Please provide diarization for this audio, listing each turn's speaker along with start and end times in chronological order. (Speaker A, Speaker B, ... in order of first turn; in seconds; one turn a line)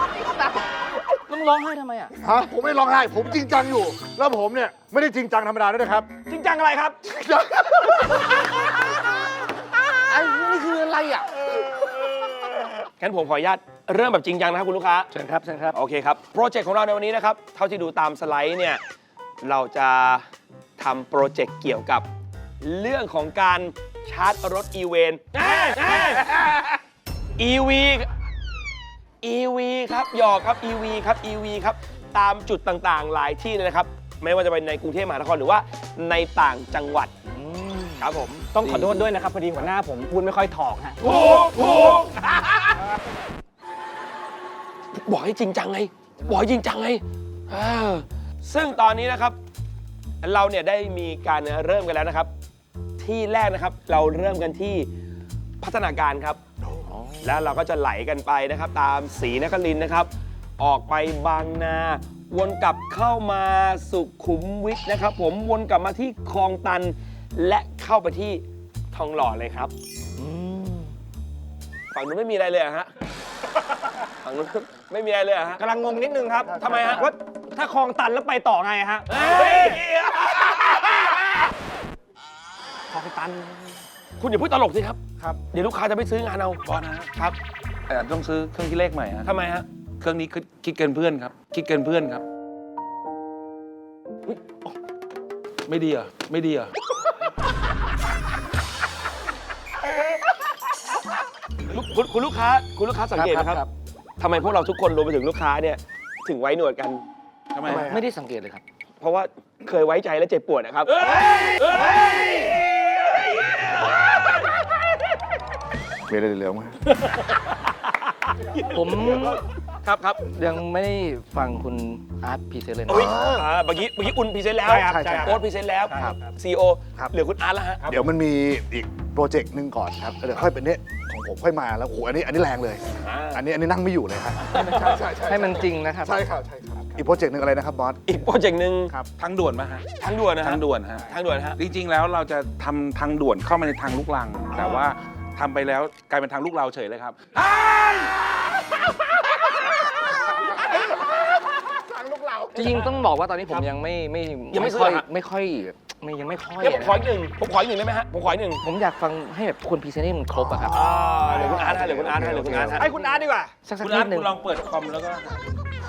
Speaker A: 1.3-2.1
Speaker B: 2.2-6.1
Speaker C: 6.3-6.9
Speaker D: 6.3-6.9
Speaker B: 7.1-8.0
Speaker A: 10.0-11.3
Speaker C: 13.0-15.1
Speaker A: 15.1-15.8
Speaker C: 15.7-18.8
Speaker C: 19.4-20.3
Speaker C: 20.8-22.1
Speaker C: 22.6-26.8
Speaker D: 25.4-26.2
Speaker C: 27.4-28.1
Speaker C: 29.2-37.1
Speaker A: 37.3-38.0
Speaker C: 38.0-39.0
Speaker D: 38.5-41.3
Speaker C: 41.0-42.7
Speaker C: 44.9-49.4
Speaker C: 50.2-52.3
Speaker C: 53.0-54.9
Speaker C: 55.6-56.4
Speaker A: 56.9-57.3
Speaker C: 57.2-69.7
Speaker A: 70.2-70.9
Speaker C: 71.9-72.9
Speaker C: 74.0-75.7
Speaker D: 75.6-79.8
Speaker C: 76.6-77.1
Speaker C: 79.1-80.5
Speaker D: 82.9-83.8
Speaker C: 84.2-86.6
Speaker E: 86.6-87.1
Speaker E: 87.9-89.3
Speaker C: 89.2-89.7
Speaker E: 90.0-92.2
Speaker E: 95.7-96.7
Speaker C: 101.7-103.6
Speaker A: 103.1-103.7
Speaker C: 104.2-107.0
Speaker E: 107.5-107.9
Speaker B: 107.6-108.0
Speaker A: 107.6-108.6
Speaker C: 109.0-114.6
Speaker B: 116.1-116.8
Speaker C: 118.5-120.2
Speaker A: 118.6-119.4
Speaker A: 120.2-123.3
Speaker C: 122.9-128.0
Speaker B: 122.9-123.4
Speaker D: 124.6-125.4
Speaker B: 124.8-126.1
Speaker B: 127.8-138.0
Speaker C: 133.0-133.4
Speaker C: 134.6-134.9
Speaker A: 134.9-136.2
Speaker C: 138.1-138.9
Speaker E: 139.2-139.8
Speaker C: 140.0-141.6
Speaker E: 140.4-147.9
Speaker C: 152.1-152.8
Speaker A: 152.5-157.1
Speaker C: 154.5-155.1
Speaker C: 156.6-158.6
Speaker A: 158.6-164.3
Speaker C: 160.7-162.9
Speaker D: 160.7-161.7
Speaker B: 161.7-162.7
Speaker D: 162.7-163.5
Speaker E: 163.8-165.4